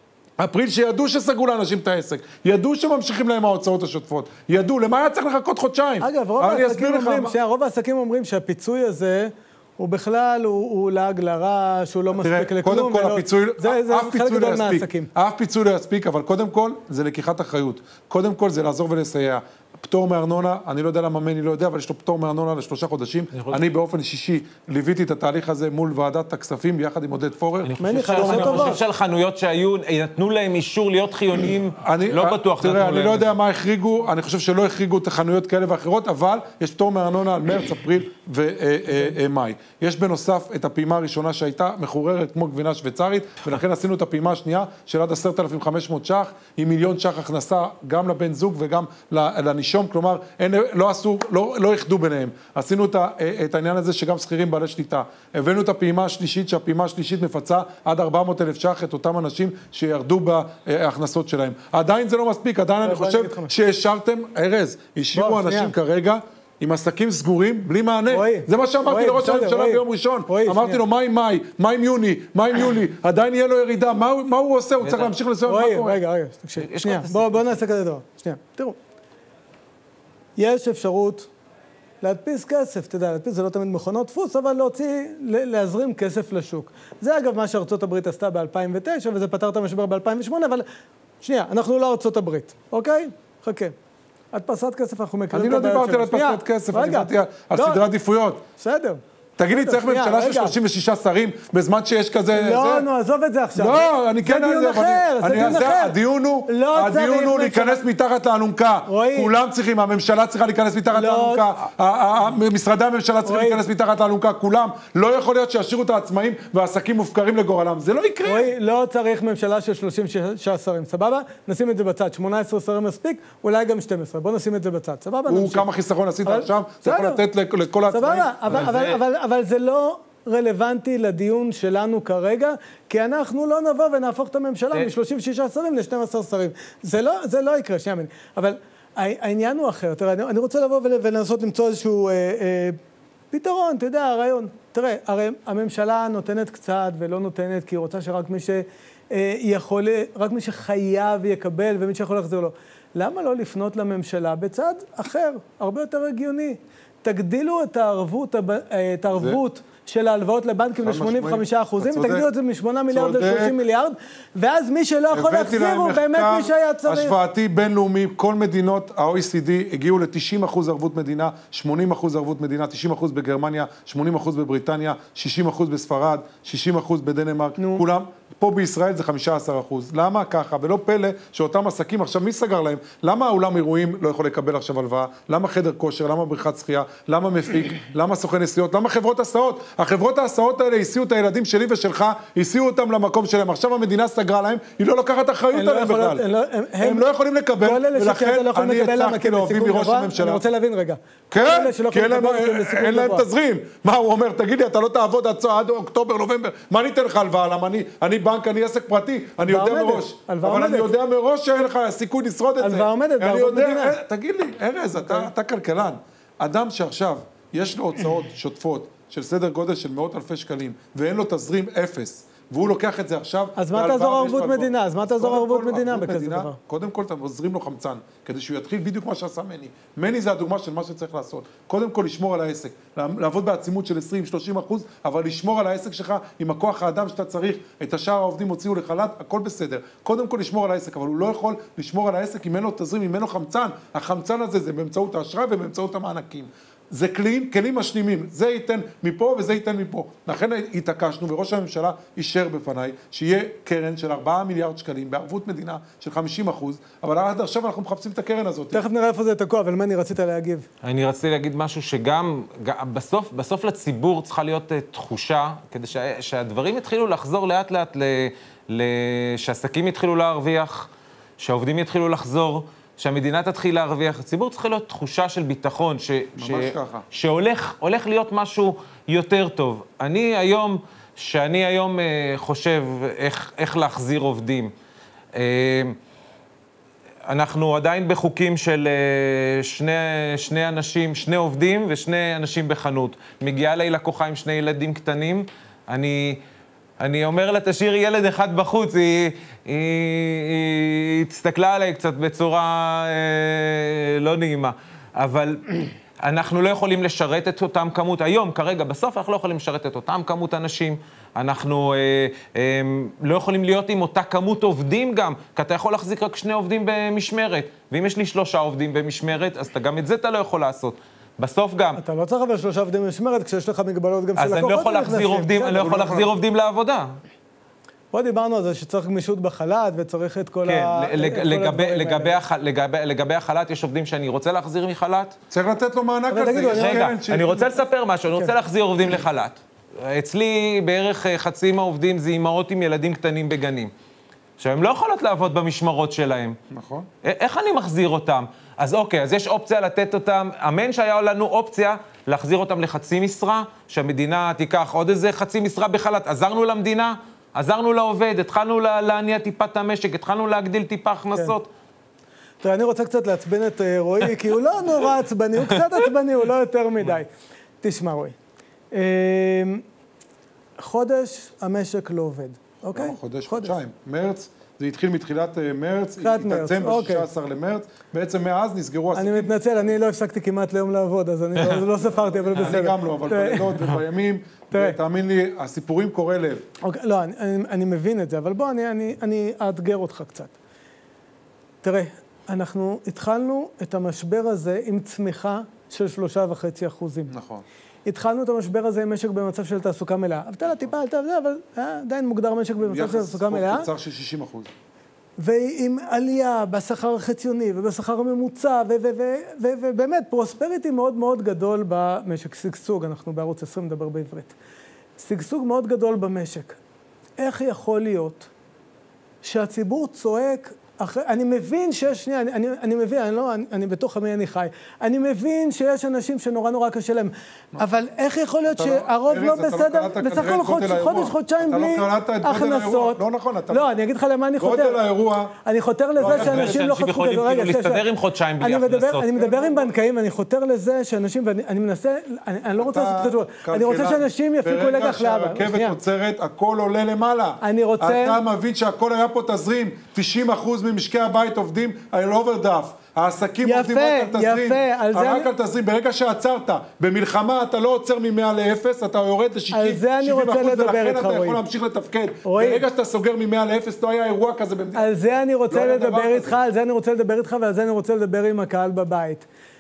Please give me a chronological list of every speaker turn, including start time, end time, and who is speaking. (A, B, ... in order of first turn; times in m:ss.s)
0:00.4-0:07.4 A
0:06.0-0:15.1 B
0:12.2-0:28.8 A
0:23.3-0:23.6 C
0:27.6-0:33.3 C
0:27.8-0:28.8 B
0:31.8-1:16.0 A
1:02.8-1:03.5 B
1:05.1-1:05.7 B
1:08.1-1:10.8 B
1:14.8-1:15.2 C
1:15.5-1:18.8 B
1:16.6-1:17.5 C
1:20.4-1:21.3 B
1:22.0-1:30.6 B
1:31.2-1:33.7 B
1:34.3-1:37.8 B
1:35.3-1:38.4 A
1:38.6-1:40.6 B
1:39.4-1:42.9 A
1:42.3-1:47.8 B
1:43.6-1:58.5 A
1:48.9-1:49.3 B
1:50.9-1:51.4 B
1:53.2-1:53.6 B
1:58.2-2:05.7 B
2:05.3-2:08.7 A
2:06.2-2:07.2 B
2:07.9-2:22.8 B
2:08.5-2:09.0 C
2:23.3-2:47.2 B
2:40.8-2:42.3 A
2:42.9-2:43.6 A
2:45.1-3:16.2 A
2:57.6-2:57.8 B
3:15.5-3:17.1 B
3:16.8-3:20.4 A
3:17.6-3:23.3 B
3:21.3-4:18.8 A
3:29.4-3:30.9 B
3:32.6-3:34.0 B
3:35.0-3:35.3 B
3:43.6-3:46.6 B
4:18.7-4:20.7 B
4:20.8-4:30.9 C
4:31.4-4:44.7 C
4:36.4-4:37.0 A
4:45.4-4:46.0 C
4:47.3-4:56.4 C
4:57.0-5:22.0 C
5:22.0-5:26.2 B
5:24.4-5:27.2 C
5:25.8-5:26.2 A
5:28.1-5:32.4 B
5:30.7-5:35.4 C
5:35.5-5:37.7 A
5:36.3-5:37.2 B
5:36.5-5:43.9 C
5:44.6-5:46.6 C
5:46.7-5:47.1 A
5:47.2-6:01.7 C
6:02.6-6:07.3 B
6:07.8-6:08.4 B
6:08.9-6:09.8 B
6:10.8-6:13.8 B
6:13.0-6:19.5 A
6:16.2-6:17.3 B
6:19.1-6:23.9 B
6:22.5-6:26.6 A
6:24.7-6:25.0 B
6:26.8-6:30.5 B
6:31.8-6:37.3 B
6:37.3-6:37.6 A
6:38.1-6:43.9 B
6:42.8-6:44.7 A
6:45.4-6:54.5 B
6:55.2-6:56.8 B
6:57.4-6:58.5 B
6:59.4-7:15.0 B
7:08.7-7:13.9 A
7:14.6-7:15.6 A
7:15.6-7:18.0 B
7:16.2-7:16.9 A
7:16.2-7:19.5 C
7:18.6-7:26.0 B
7:19.6-7:19.8 A
7:22.8-7:45.1 A
7:27.6-7:28.4 B
7:33.6-7:35.5 B
7:39.7-7:41.6 B
7:42.4-7:42.8 B
7:45.0-7:49.4 B
7:45.7-7:46.6 A